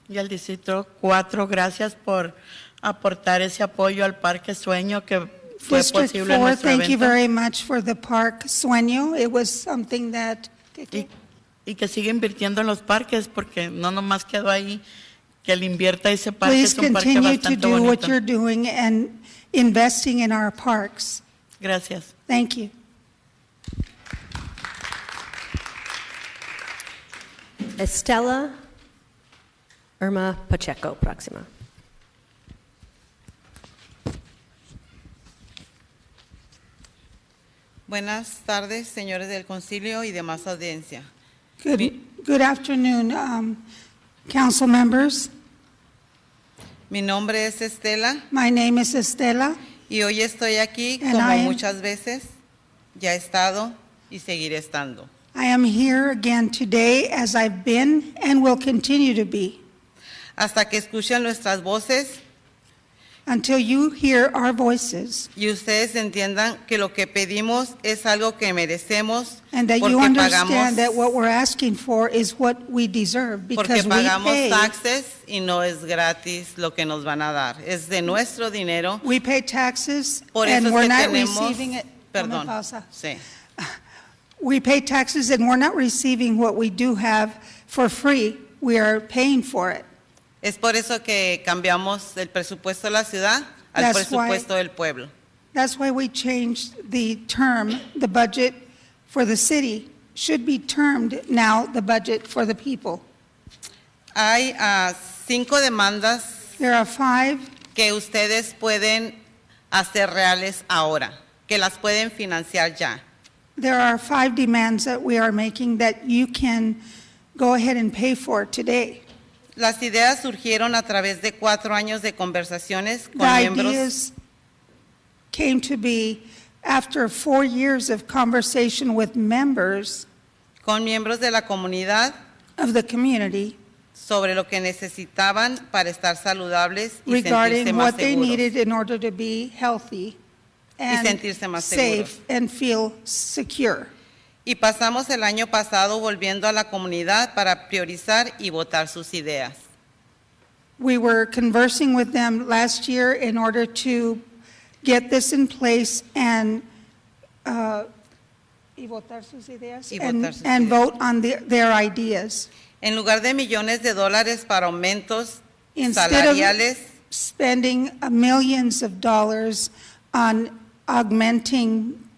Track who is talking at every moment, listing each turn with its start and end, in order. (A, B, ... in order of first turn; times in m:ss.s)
0:00.1-0:07.2 A
0:05.6-0:11.1 B
0:11.7-0:14.8 A
0:15.4-0:18.1 A
0:16.4-0:21.2 B
0:21.6-0:22.1 A
0:22.3-0:22.7 B
0:27.8-0:28.6 C
0:30.0-0:31.5 C
0:37.9-0:41.1 D
0:41.6-0:43.6 B
0:44.3-0:45.3 B
0:46.9-0:48.2 D
0:48.3-0:49.6 B
0:49.9-0:52.3 D
0:51.0-0:51.6 B
0:53.0-0:55.1 D
0:55.3-0:59.6 B
1:00.4-1:02.2 D
1:03.3-1:05.3 B
1:05.4-1:11.1 D
1:09.5-1:14.7 B
1:13.6-1:19.0 D
1:19.0-1:22.9 B
1:20.3-1:23.2 D
1:24.4-1:29.8 B
1:30.4-1:35.1 D
1:33.8-1:34.4 B
1:35.5-1:43.0 B
1:44.2-1:46.5 D
1:46.6-1:47.5 B
1:47.7-1:49.2 D
1:49.7-1:53.0 D
1:53.6-1:56.8 B
1:57.3-1:59.0 B
1:59.6-2:03.9 D
2:03.2-2:04.1 B
2:05.3-2:10.1 B
2:10.6-2:12.1 D
2:12.6-2:13.6 B
2:14.0-2:18.5 D
2:17.1-2:20.2 B
2:20.8-2:23.9 B
2:20.9-2:22.1 D
2:24.4-2:29.6 D
2:30.8-2:34.2 B
2:34.8-2:36.6 B
2:37.4-2:37.9 B
2:38.8-2:42.5 B
2:39.9-2:40.8 D
2:42.8-2:46.9 D
2:45.8-2:46.6 B
2:47.1-2:52.0 B